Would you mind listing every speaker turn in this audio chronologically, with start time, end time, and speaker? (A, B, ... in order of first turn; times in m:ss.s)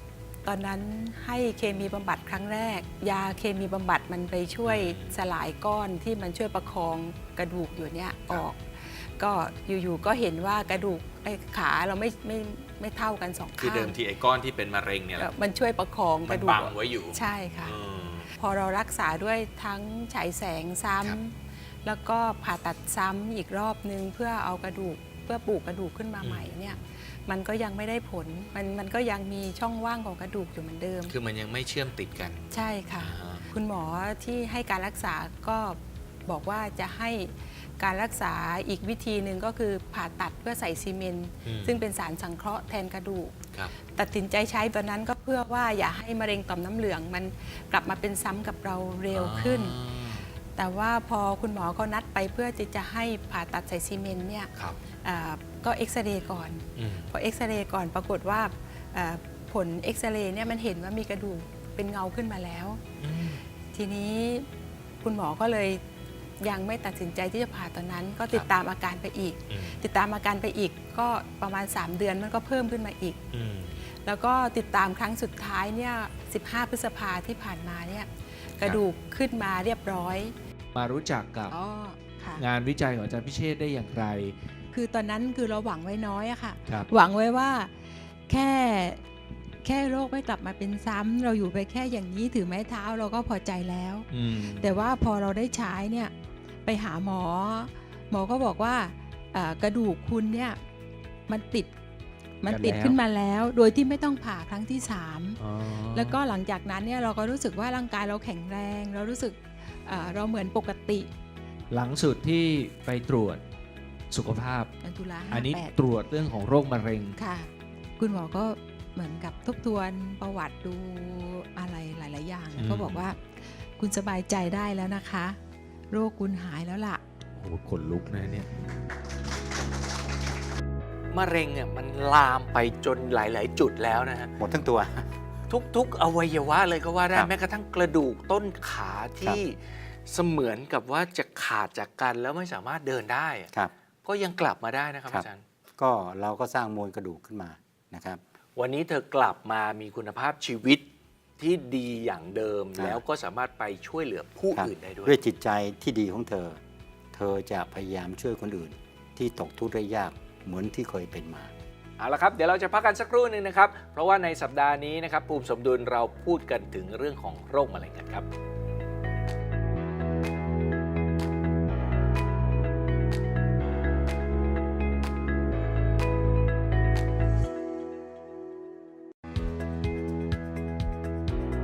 0:00.4-0:14.0 A
0:04.6-0:05.2 B
0:13.6-0:15.3 B
0:15.2-0:17.7 A
0:16.2-0:18.3 B
0:18.4-0:31.1 A
0:26.2-0:26.8 B
0:31.1-0:33.5 B
0:32.5-0:43.4 A
0:41.4-0:41.8 B
0:43.9-0:49.8 A
0:49.1-0:50.3 B
0:50.6-0:54.5 A
0:55.0-1:02.8 A
0:56.8-0:57.1 B
1:03.0-1:03.4 B
1:03.7-1:04.5 A
1:05.0-1:05.8 A
1:06.4-1:13.2 A
1:09.5-1:09.8 B
1:13.3-1:13.8 B
1:14.0-1:20.4 A
1:20.7-1:21.6 C
1:21.5-1:22.4 A
1:22.4-1:24.4 C
1:24.7-1:29.0 A
1:29.6-1:36.1 A
1:34.1-1:34.7 C
1:36.6-1:40.6 A
1:41.3-1:41.8 A
1:42.4-1:45.4 A
1:42.5-1:43.0 C
1:45.4-1:46.2 C
1:45.9-1:51.1 A
1:51.7-1:53.4 C
1:54.1-1:54.7 C
1:54.8-1:55.7 A
1:55.3-1:57.2 C
1:57.2-2:05.4 A
2:02.6-2:03.0 C
2:05.9-2:07.0 A
2:07.4-2:08.7 C
2:11.1-2:14.4 B
2:14.4-2:15.1 D
2:15.5-2:23.5 B
2:24.0-2:25.4 B
2:25.8-2:28.2 D
2:28.6-2:30.9 B
2:31.4-2:35.2 B
2:32.8-2:33.0 D
2:34.5-2:36.6 D
2:37.1-2:41.5 D
2:42.0-2:48.3 B